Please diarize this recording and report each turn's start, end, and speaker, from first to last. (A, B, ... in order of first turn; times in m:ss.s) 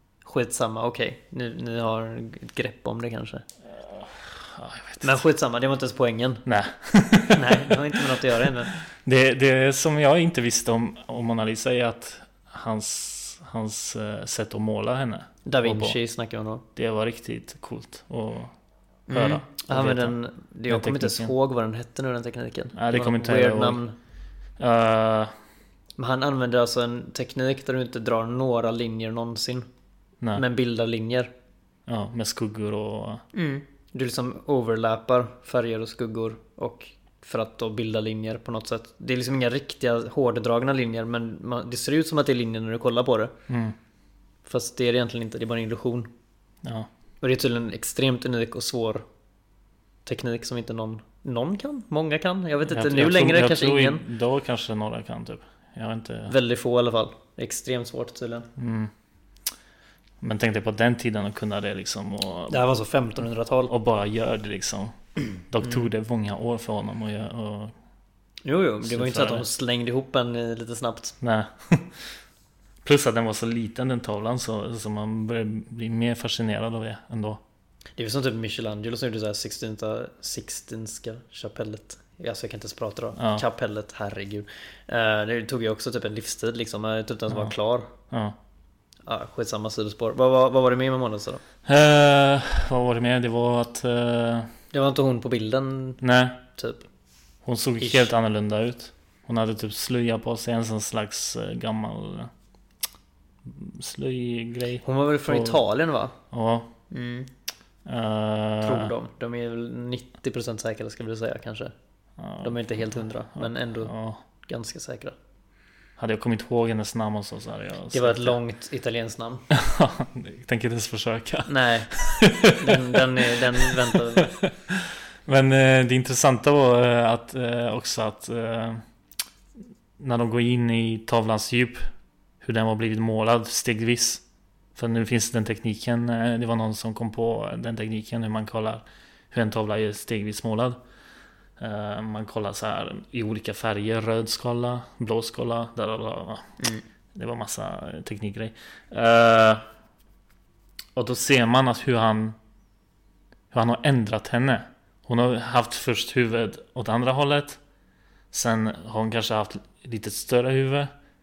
0:00.2-0:03.4 A
0:03.7-0:05.2 B
0:05.0-0:06.4 A
0:06.5-0:16.0 B
0:07.3-0:08.7 A
0:15.4-0:16.6 A
0:16.8-0:18.5 B
0:19.1-0:24.0 A
0:19.1-0:20.2 B
0:20.7-0:21.3 B
0:22.8-0:23.8 B
0:24.6-0:25.3 B
0:26.0-0:29.7 A
0:30.3-0:31.3 A
0:31.9-0:33.2 B
0:33.3-0:43.3 A
0:43.5-0:43.8 B
0:44.4-0:46.1 A
0:46.6-0:46.9 B
0:47.2-0:49.0 A
0:50.0-0:54.1 A
0:52.7-0:56.4 B
0:56.3-0:58.5 A
0:58.6-0:58.9 B
1:00.2-1:02.6 B
1:02.5-1:03.7 A
1:03.7-1:05.0 B
1:05.5-1:07.7 B
1:08.4-1:11.2 A
1:08.8-1:09.5 B
1:11.2-1:11.9 B
1:12.8-1:17.4 B
1:18.0-1:27.9 A
1:23.2-1:23.4 B
1:28.1-1:28.4 B
1:29.1-1:31.4 A
1:31.7-1:34.5 B
1:34.7-1:36.0 A
1:36.0-1:36.4 B
1:36.6-1:36.8 A
1:37.4-1:42.3 B
1:37.8-1:38.1 A
1:43.4-1:45.6 B
1:44.8-1:46.2 A
1:46.3-1:46.7 B
1:46.9-1:47.3 A
1:47.8-1:49.0 B
1:48.6-1:51.7 A
1:52.2-1:54.2 B
1:52.4-1:53.9 A
1:54.5-1:55.2 A
1:56.0-1:58.4 B
1:57.9-1:59.5 A
1:59.5-2:08.8 B
2:01.5-2:01.9 A
2:02.4-2:04.3 A
2:10.0-2:11.8 B
2:12.4-2:14.2 B
2:14.8-2:20.8 B
2:21.6-2:26.6 B
2:27.1-2:29.6 B
2:31.0-2:32.4 B
2:33.5-2:37.6 B
2:38.3-2:40.9 B